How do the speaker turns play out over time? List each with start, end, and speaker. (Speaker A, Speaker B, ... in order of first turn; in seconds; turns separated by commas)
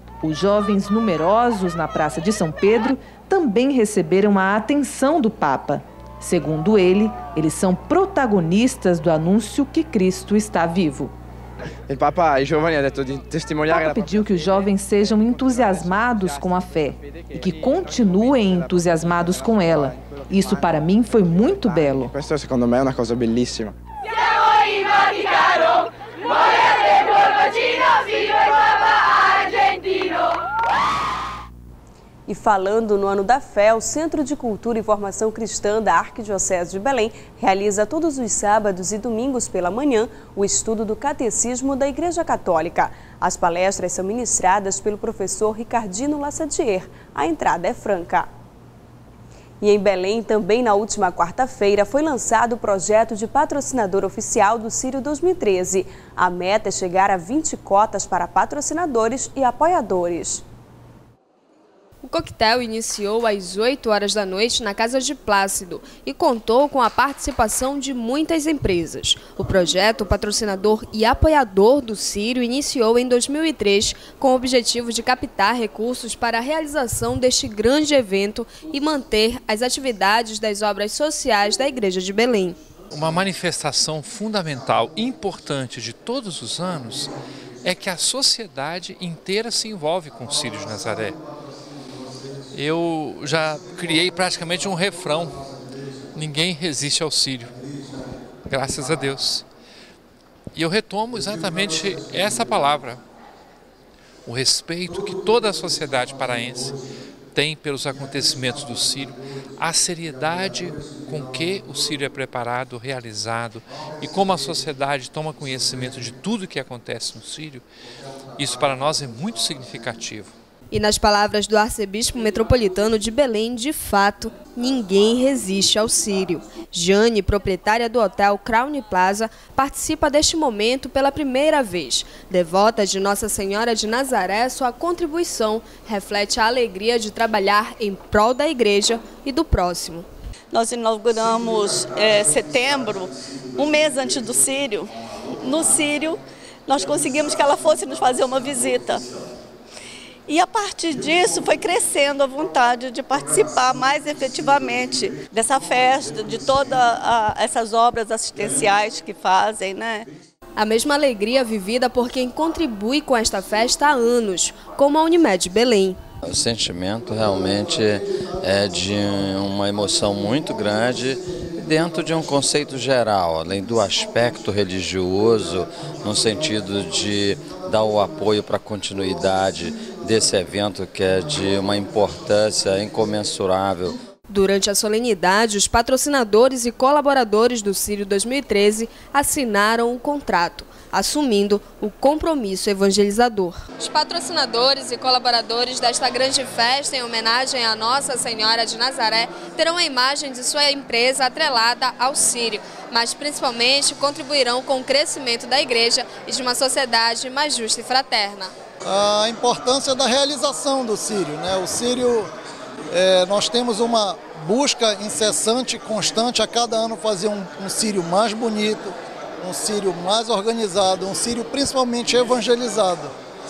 Speaker A: 0.2-11.1, Speaker B: 11.9-14.1, Speaker A: 13.7-22.1, Speaker B: 21.7-23.7, Speaker C: 32.3-48.3, Speaker C: 49.6-60.4, Speaker D: 62.0-82.6, Speaker E: 82.9-87.1, Speaker E: 87.6-91.2, Speaker E: 92.5-95.4, Speaker E: 96.1-97.5, Speaker E: 98.5-99.4, Speaker E: 100.5-103.0, Speaker E: 104.2-106.7, Speaker E: 107.3-117.6, Speaker E: 118.4-120.3, Speaker D: 120.7-140.1, Speaker F: 140.5-149.0, Speaker F: 150.3-160.1, Speaker D: 160.6-166.0, Speaker G: 166.2-184.0, Speaker D: 184.3-208.5, Speaker H: 208.8-212.3, Speaker H: 212.9-223.1